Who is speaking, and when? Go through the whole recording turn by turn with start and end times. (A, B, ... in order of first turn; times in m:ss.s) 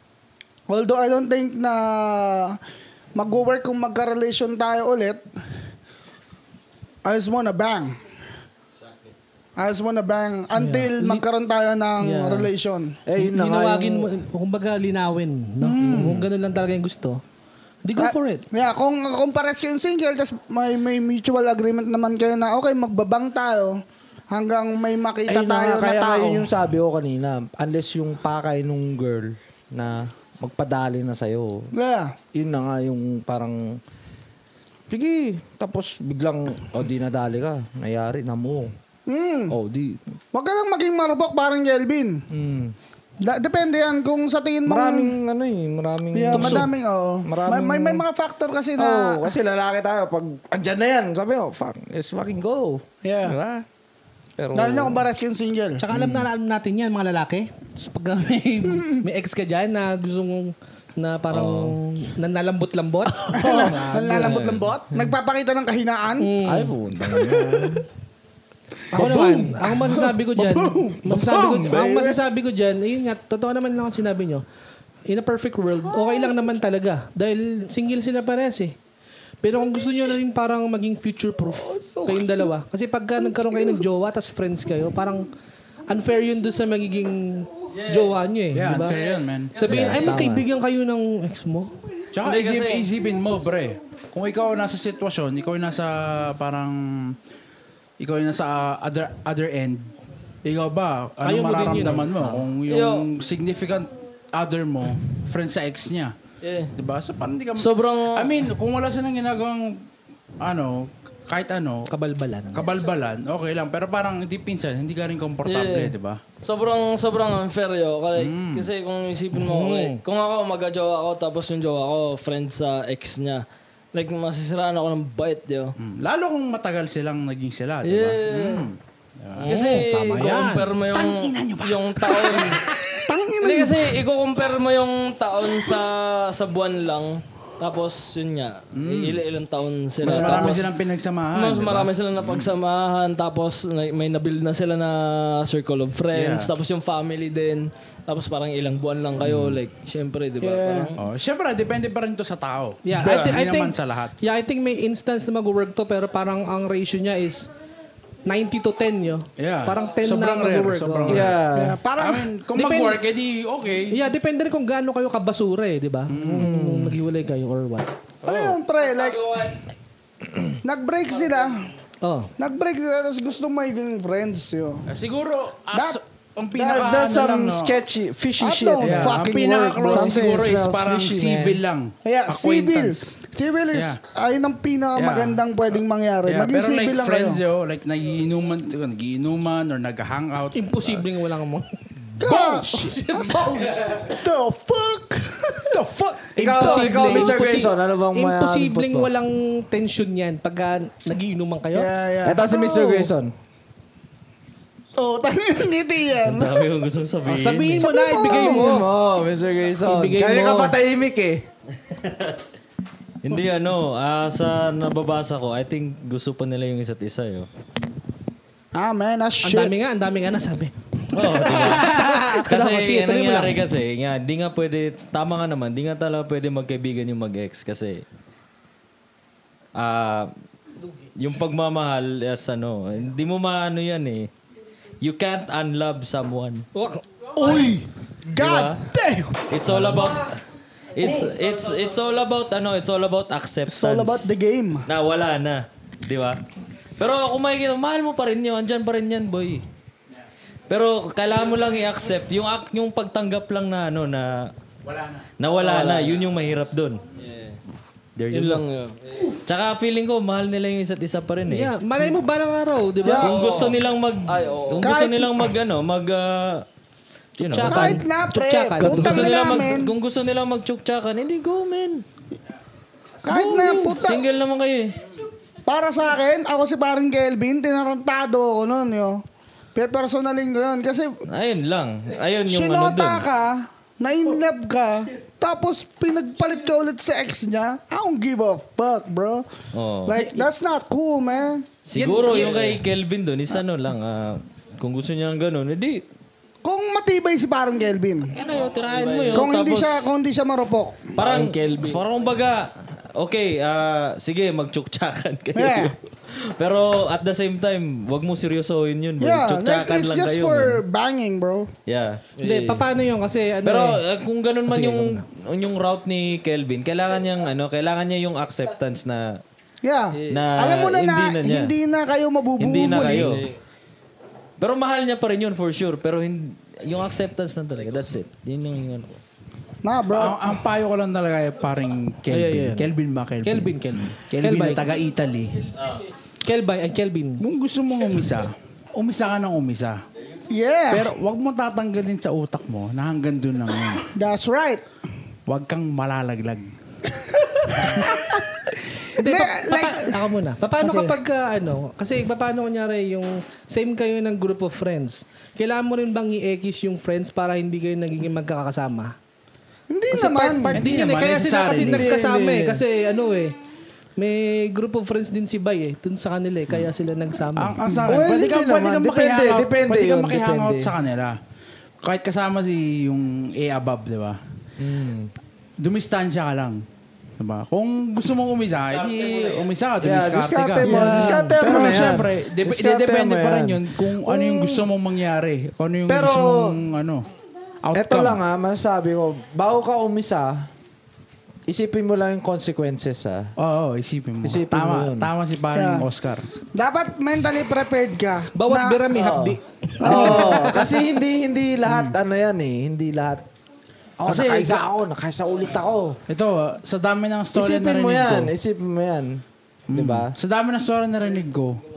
0:00.7-0:02.6 A
0:03.1-0:05.2 A
0:07.0-0:08.0 A
0:09.6-0:13.0 A
0:10.5-0:11.2 B
0:12.0-0:12.5 B
0:13.0-0:14.1 C
0:13.2-0:17.2 B
0:15.6-0:16.2 A
0:17.8-0:18.4 B
0:18.0-0:26.5 A
0:25.3-0:31.7 C
0:31.7-0:32.1 A
0:32.3-0:33.8 C
0:34.9-0:38.7 C
0:39.1-0:39.6 A
0:39.5-0:40.0 C
0:40.3-0:42.2 A
0:42.3-0:42.7 C
0:43.2-0:45.1 A
0:44.6-0:46.7 C
0:46.1-0:49.3 A
0:46.3-0:46.6 B
0:47.2-0:48.0 C
0:48.8-0:53.6 C
0:53.0-0:53.4 A
0:54.4-0:55.1 C
0:54.5-0:55.8 A
0:55.8-1:04.4 B
0:55.9-0:56.3 C
0:58.7-0:59.0 A
1:03.1-1:04.7 C
1:03.3-1:06.3 A
1:06.2-1:06.7 B
1:06.4-1:07.8 C
1:07.1-1:07.8 A
1:08.9-1:14.4 B
1:08.9-1:11.3 A
1:09.0-1:09.3 C
1:11.0-1:12.2 C
1:15.1-1:18.8 B
1:15.9-1:16.3 A
1:19.4-1:25.2 B
1:21.5-1:22.5 A
1:23.2-1:23.8 A
1:25.9-1:29.0 B
1:27.7-1:28.2 D
1:28.5-1:29.9 E
1:28.9-1:30.2 D
1:29.5-1:31.7 B
1:29.6-1:30.4 C
1:32.1-1:37.2 E
1:32.2-1:32.9 D
1:38.0-1:39.9 E
1:40.4-1:46.1 E
1:41.2-1:42.3 B
1:42.6-1:43.1 D
1:46.4-1:46.7 D
1:46.8-1:49.9 E
1:47.6-1:48.4 D
1:50.4-1:51.9 E
1:51.9-1:52.7 B
1:52.5-1:56.2 E
1:55.4-2:05.7 D
1:58.1-1:58.7 E
1:59.3-2:00.0 B
2:05.8-2:09.7 E
2:07.8-2:08.7 D
2:09.4-2:12.7 D
2:09.4-2:10.7 B
2:10.9-2:12.9 E
2:13.0-2:14.0 A
2:13.4-2:20.7 D
2:18.7-2:19.2 E
2:20.0-2:22.5 E
2:20.0-2:20.5 A
2:21.3-2:31.0 D
2:26.1-2:26.5 E
2:29.3-2:29.5 E
2:30.4-2:30.9 A
2:31.0-2:34.1 E
2:32.8-2:37.5 B
2:33.0-2:33.4 D
2:38.2-2:41.4 B
2:39.4-2:44.0 E
2:41.1-2:41.8 C
2:41.5-2:42.4 A
2:42.5-2:43.0 B
2:43.9-2:47.9 B
2:46.1-2:46.5 E
2:46.3-2:47.0 C
2:48.2-2:49.4 A
2:48.2-2:48.6 E
2:48.7-2:49.6 D
2:50.6-2:51.7 A
2:51.1-2:51.5 D
2:52.0-2:52.3 B
2:52.4-2:54.8 A
2:54.9-2:57.7 E
2:55.7-2:56.0 A
2:56.5-2:59.2 C
2:58.4-3:00.3 A
2:58.8-3:03.1 E
2:59.8-3:01.6 C
3:02.0-3:07.4 A
3:03.7-3:04.0 E
3:04.9-3:05.4 E
3:06.2-3:11.0 E
3:10.5-3:11.6 B
3:12.2-3:12.5 E
3:12.2-3:15.8 A
3:12.2-3:14.0 B
3:15.8-3:16.3 E
3:16.2-3:21.9 B
3:16.4-3:19.1 C
3:21.7-3:23.1 A
3:22.2-3:23.3 C
3:25.0-3:26.7 A
3:26.2-3:27.8 F
3:27.2-3:28.9 B
3:27.8-3:28.7 A
3:28.2-3:31.4 C
3:29.8-3:30.8 B
3:31.9-3:32.4 F
3:33.2-3:37.5 F
3:38.7-3:39.7 A
3:39.4-3:43.6 B
3:41.1-3:48.0 F
3:41.6-3:41.8 A
3:49.7-3:50.3 F
3:51.1-3:54.3 F
3:55.0-3:56.6 F
3:56.7-3:57.0 B
3:57.4-3:59.5 A
3:57.4-3:57.8 E
3:58.4-3:58.8 F
3:59.5-4:00.4 F
4:00.9-4:06.4 F
4:01.0-4:01.7 D
4:03.7-4:04.8 A
4:07.0-4:09.6 F
4:10.7-4:14.5 F
4:14.8-4:15.3 E
4:15.4-4:17.0 F
4:15.6-4:16.3 D
4:17.2-4:17.6 D
4:18.2-4:18.6 F
4:18.3-4:19.4 D
4:19.4-4:21.7 F
4:21.5-4:23.6 B
4:23.0-4:23.4 A
4:23.2-4:26.6 F
4:23.4-4:23.7 D
4:24.3-4:24.9 D
4:24.8-4:25.5 A
4:27.4-4:28.0 F
4:27.4-4:29.5 B
4:27.6-4:29.9 A
4:28.8-4:32.0 F
4:33.2-4:34.2 A
4:33.3-4:35.0 F
4:35.7-4:39.2 A
4:39.7-4:41.2 A
4:41.3-4:43.2 F
4:42.5-4:49.5 A
4:49.7-4:50.2 F
4:50.1-4:51.7 A
4:51.8-4:56.0 F
4:52.0-4:52.6 B
4:56.6-4:58.3 A
4:58.3-5:00.1 F
4:58.7-4:59.5 D
4:59.3-5:01.1 A
5:01.2-5:10.8 F
5:01.2-5:02.3 D
5:05.6-5:05.9 A
5:09.2-5:11.7 A
5:11.9-5:12.2 F
5:12.4-5:12.8 D
5:12.4-5:14.0 B
5:13.6-5:19.4 F
5:14.7-5:15.2 B
5:19.8-5:23.4 A
5:20.1-5:20.5 D
5:20.3-5:21.7 F
5:22.6-5:23.5 F
5:22.8-5:23.6 D
5:24.6-5:29.2 F
5:29.8-5:30.6 A
5:30.1-5:35.6 E
5:32.3-5:32.9 B
5:33.4-5:34.8 B
5:35.8-5:36.0 F
5:36.4-5:37.4 B
5:37.4-5:40.0 E
5:40.5-5:41.1 A
5:40.9-5:44.1 E
5:44.1-5:44.8 A
5:45.5-5:46.7 E
5:47.2-5:48.4 A
5:49.0-5:50.2 A
5:49.2-5:59.1 B
5:50.8-5:51.2 A
5:59.9-6:00.8 A
6:00.1-6:03.6 B
6:00.7-6:02.1 E
6:01.9-6:02.8 C
6:04.2-6:07.9 B
6:07.5-6:11.4 E
6:08.0-6:10.9 C
6:12.0-6:14.4 E
6:14.8-6:15.3 C
6:15.8-6:16.8 E
6:17.4-6:27.2 E
6:18.9-6:19.6 F
6:20.0-6:24.9 C
6:20.8-6:21.6 A
6:26.1-6:26.8 C
6:27.8-6:28.4 E
6:27.9-6:30.7 C
6:31.7-6:33.5 C
6:33.6-6:36.5 E
6:34.4-6:35.3 C
6:35.7-6:36.1 A
6:36.7-6:39.1 A
6:38.5-6:41.0 B
6:39.1-6:43.4 C
6:40.0-6:40.7 A
6:41.8-6:42.1 E
6:44.2-6:46.2 C
6:44.2-6:44.8 E
6:46.3-6:48.5 E
6:47.5-6:50.3 C
6:49.9-6:51.8 E